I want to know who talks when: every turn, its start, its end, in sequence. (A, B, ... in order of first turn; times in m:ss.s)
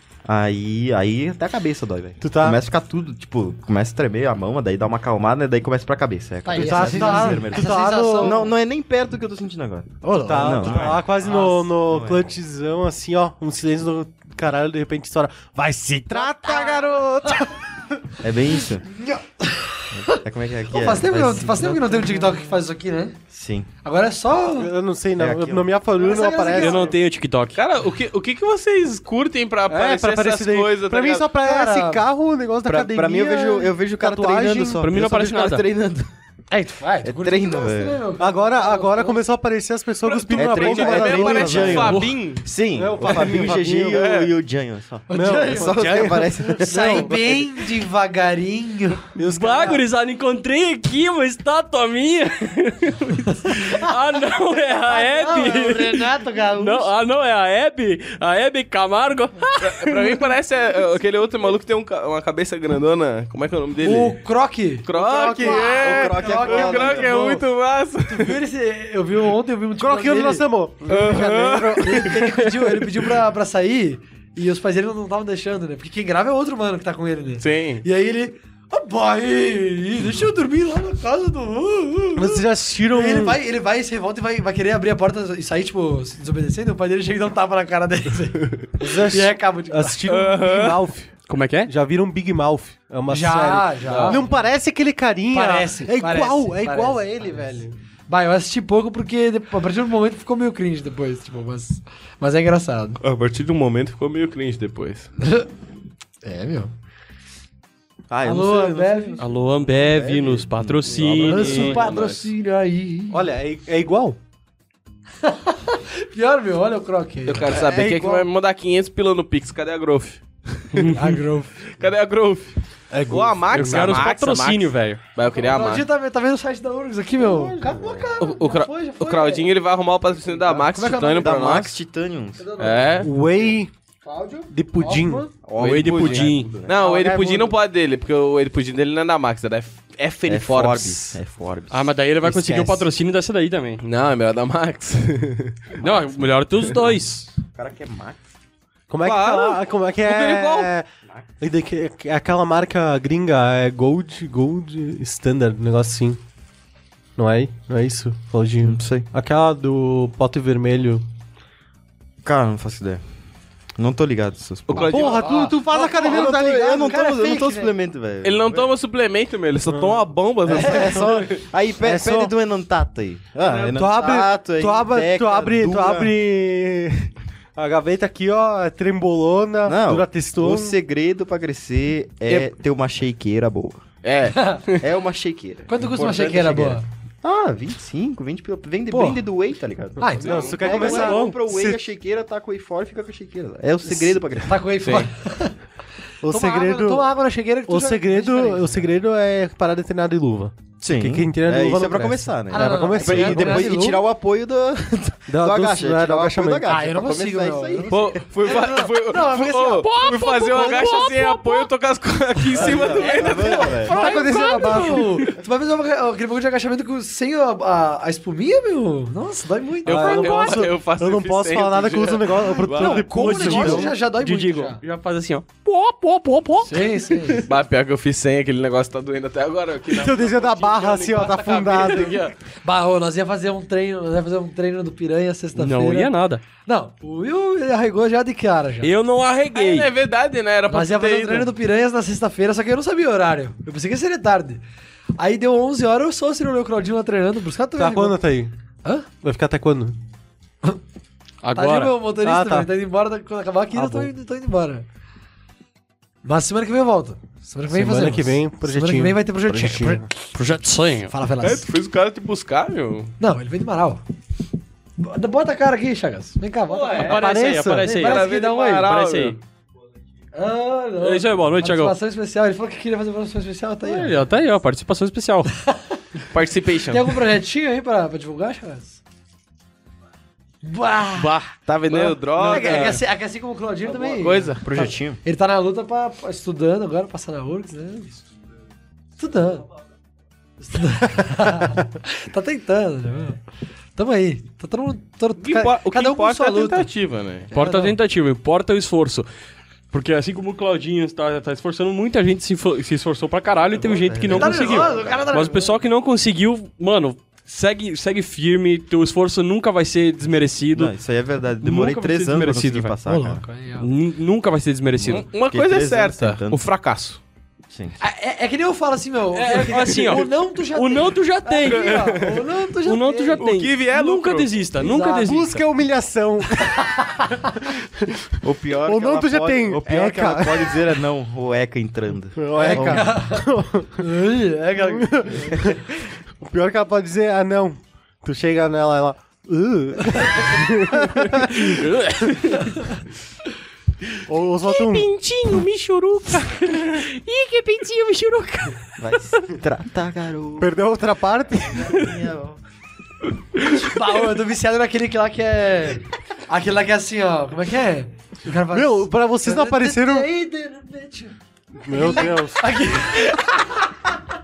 0:00.3-0:12.3 A
0:02.2-0:02.6 B
0:06.4-0:08.5 C
0:06.5-0:08.5 B
0:10.0-0:11.5 C
0:10.0-0:17.6 B
0:16.1-0:17.4 C
0:18.2-0:18.9 A
0:18.8-0:23.2 C
0:20.0-0:22.2 A
0:23.3-0:23.7 A
0:23.8-0:24.7 C
0:24.6-0:26.9 B
0:25.2-0:25.8 A
0:26.0-0:26.9 C
0:26.5-0:27.6 D
0:27.6-0:31.2 E
0:29.7-0:34.8 B
0:31.4-0:32.0 C
0:32.7-0:36.1 A
0:34.8-0:35.6 D
0:36.5-0:39.2 C
0:37.0-0:38.0 A
0:38.2-0:42.0 B
0:40.1-0:42.4 E
0:40.3-0:47.4 A
0:41.9-0:42.4 D
0:42.7-0:44.1 B
0:43.1-0:44.4 E
0:45.1-0:49.8 C
0:45.1-0:47.4 B
0:49.2-0:49.8 B
0:49.2-1:00.4 D
0:54.9-0:56.9 C
0:59.6-1:04.2 E
1:03.8-1:07.4 C
1:04.8-1:08.4 E
1:05.4-1:07.3 A
1:08.1-1:10.5 C
1:09.8-1:12.2 B
1:10.9-1:12.5 E
1:11.7-1:30.1 C
1:17.4-1:17.8 E
1:22.2-1:23.4 B
1:28.8-1:37.8 B
1:30.1-1:30.8 E
1:31.3-1:31.7 D
1:33.1-1:34.4 C
1:33.9-1:34.2 E
1:35.3-1:43.0 C
1:43.0-1:45.1 E
1:45.2-1:45.5 C
1:46.2-1:46.7 C
1:48.1-1:51.9 A
1:48.2-1:49.3 C
1:49.2-1:51.8 D
1:51.2-1:52.3 E
1:51.2-1:53.2 C
1:53.1-1:54.2 B
1:55.2-1:57.6 C
1:57.3-2:00.9 E
1:57.5-1:58.3 B
2:00.7-2:01.2 D
2:00.9-2:01.6 C
2:01.7-2:02.6 E
2:02.9-2:04.0 B
2:03.1-2:05.9 E
2:03.5-2:05.0 D
2:05.3-2:09.5 C
2:07.2-2:08.2 A
2:08.2-2:11.8 E
2:10.5-2:11.4 C
2:11.2-2:12.5 A
2:12.4-2:13.2 C
2:12.6-2:13.1 E
2:13.0-2:13.7 B
2:14.0-2:15.3 C
2:14.5-2:15.3 B
2:15.4-2:16.8 A
2:15.6-2:16.6 D
2:15.6-2:21.2 E
2:16.8-2:17.6 C
2:20.3-2:22.9 A
2:21.7-2:23.8 D
2:23.8-2:25.7 E
2:25.8-2:27.3 D
2:25.8-2:26.2 A
2:27.5-2:28.2 A
2:28.9-2:30.9 B
2:29.0-2:30.7 E
2:31.4-2:36.2 B
2:37.2-2:41.1 B
2:38.6-2:39.1 A
2:42.2-2:43.0 A
2:43.8-2:48.7 A
2:44.7-2:45.5 E
2:44.8-2:47.0 B
2:45.2-2:47.7 C
2:48.2-2:51.4 E
2:49.7-2:51.2 B
2:50.5-2:56.2 A
2:50.6-2:50.9 C
2:51.8-2:52.3 B
2:53.4-2:53.8 E
2:53.7-3:00.8 B
2:59.7-3:03.8 A
3:02.3-3:02.5 E
3:04.0-3:04.9 E
3:04.3-3:04.7 C
3:04.8-3:15.1 A
3:05.7-3:06.8 C
3:08.9-3:09.2 C
3:10.0-3:11.2 C
3:10.0-3:11.8 B
3:10.2-3:10.8 E
3:10.9-3:11.4 D
3:13.9-3:15.6 C
3:16.2-3:17.1 B
3:16.3-3:18.8 C
3:17.7-3:23.9 B
3:20.8-3:28.2 A
3:22.5-3:24.0 C
3:25.3-3:26.9 B
3:26.7-3:31.1 C
3:27.9-3:34.3 E
3:29.8-3:31.7 D
3:32.5-3:34.0 A
3:32.6-3:40.6 C
3:33.9-3:35.1 D
3:33.9-3:35.2 B
3:39.8-3:43.1 E
3:39.8-3:43.9 B
3:42.8-3:44.8 C
3:42.8-3:46.9 D
3:46.6-3:47.5 C
3:47.4-3:52.4 E
3:49.9-3:52.3 B
3:52.6-3:58.9 C
3:55.6-3:56.4 D
3:58.8-3:59.9 D
3:59.5-4:01.5 E
4:00.7-4:04.6 C
4:05.2-4:08.3 C
4:07.8-4:08.5 B
4:09.2-4:10.0 B
4:11.4-4:12.0 D
4:11.5-4:14.8 C
4:12.2-4:12.7 B
4:13.7-4:14.1 B
4:16.2-4:20.3 C
4:17.7-4:20.1 B
4:20.3-4:21.1 D
4:21.1-4:21.6 C
4:21.4-4:23.1 E
4:23.2-4:24.0 C
4:25.0-4:29.0 C
4:26.7-4:29.4 D
4:26.7-4:27.2 E
4:27.0-4:27.9 B
4:27.9-4:29.4 E
4:30.3-4:34.3 C
4:31.0-4:32.0 D
4:33.8-4:35.5 D
4:35.6-4:36.0 C
4:36.3-4:37.2 E
4:36.9-4:39.0 C
4:40.6-4:41.4 C
4:41.2-4:43.0 D
4:41.7-4:43.0 E
4:41.9-4:48.2 C
4:43.9-4:44.6 E
4:44.6-4:45.2 A
4:49.2-4:49.6 C
4:50.6-4:53.4 C
4:54.0-4:56.9 C
4:55.4-4:57.5 E
4:57.5-4:58.0 C
4:57.5-4:59.3 D
4:59.9-5:11.0 D
5:03.7-5:05.3 A
5:04.3-5:05.8 C
5:10.7-5:13.4 A
5:11.6-5:13.0 D
5:13.1-5:13.9 C
5:13.8-5:15.3 D
5:15.0-5:16.6 A
5:15.1-5:17.2 E
5:18.0-5:23.4 C
5:19.3-5:25.6 D
5:21.6-5:22.4 E
5:23.4-5:24.5 E
5:24.8-5:25.4 C
5:25.2-5:30.8 B
5:26.7-5:27.5 C
5:28.4-5:33.1 A
5:32.4-5:34.1 B
5:32.6-5:35.6 C
5:34.8-5:35.8 B
5:36.4-5:41.8 B
5:41.1-5:42.9 D
5:42.6-5:42.9 C
5:44.3-5:45.1 B
5:44.6-5:48.9 D
5:49.0-5:50.7 A
5:50.6-5:51.9 B
5:51.6-5:52.6 A
5:53.6-6:03.9 C
5:58.7-6:00.3 B
6:01.8-6:02.8 B